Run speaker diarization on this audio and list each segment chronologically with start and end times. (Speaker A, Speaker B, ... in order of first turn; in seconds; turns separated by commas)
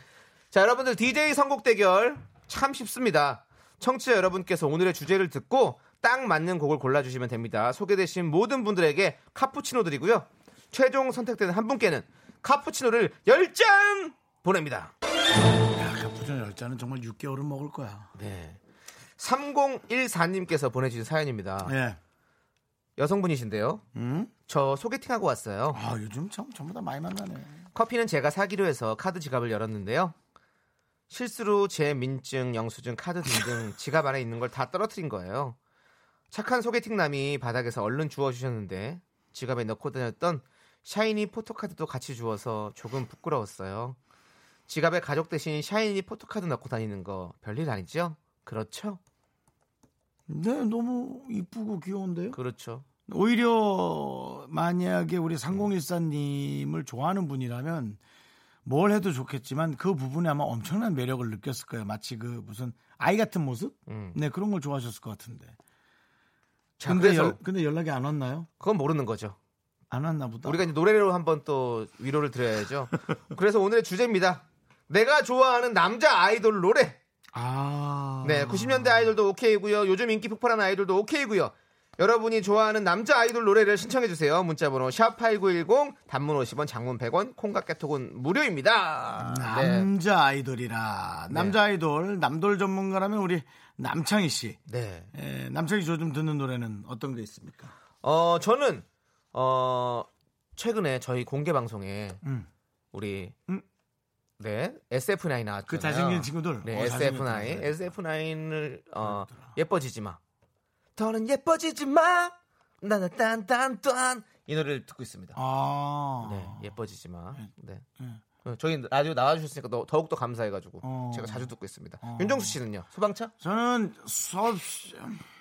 Speaker A: 0.5-14.9, Speaker B: 15.6-18.1, Speaker A: 18.1-18.6, Speaker A: 19.2-21.7, Speaker B: 21.6-22.0, Speaker A: 23.0-23.8, Speaker B: 23.9-24.3, Speaker A: 24.5-25.8, Speaker B: 25.7-27.6, Speaker A: 27.8-30.1, Speaker A: 31.1-35.6, Speaker A: 36.3-44.0, Speaker A: 44.7-49.0, Speaker B: 50.3-52.4, Speaker A: 52.3-52.9, Speaker B: 53.1-58.0, Speaker B: 58.6-65.6, Speaker A: 63.9-64.2, Speaker A: 66.8-67.4, Speaker B: 66.8-68.5, Speaker A: 68.6-69.4, Speaker B: 69.9-70.7, Speaker A: 70.5-77.0, Speaker B: 77.3-79.1, Speaker A: 78.2-89.9, Speaker B: 89.2-94.6, Speaker A: 91.3-91.6, Speaker A: 94.7-95.1, Speaker B: 95.1-97.7, Speaker A: 98.0-102.2, Speaker B: 102.2-102.5, Speaker A: 102.9-103.3, Speaker A: 104.4-110.2, Speaker B: 105.7-107.9, Speaker B: 109.0-109.5, Speaker A: 111.0-115.4, Speaker B: 115.3-116.7, Speaker A: 116.2-117.8, Speaker A: 118.4-123.3, Speaker B: 120.8-122.6, Speaker B: 123.4-125.2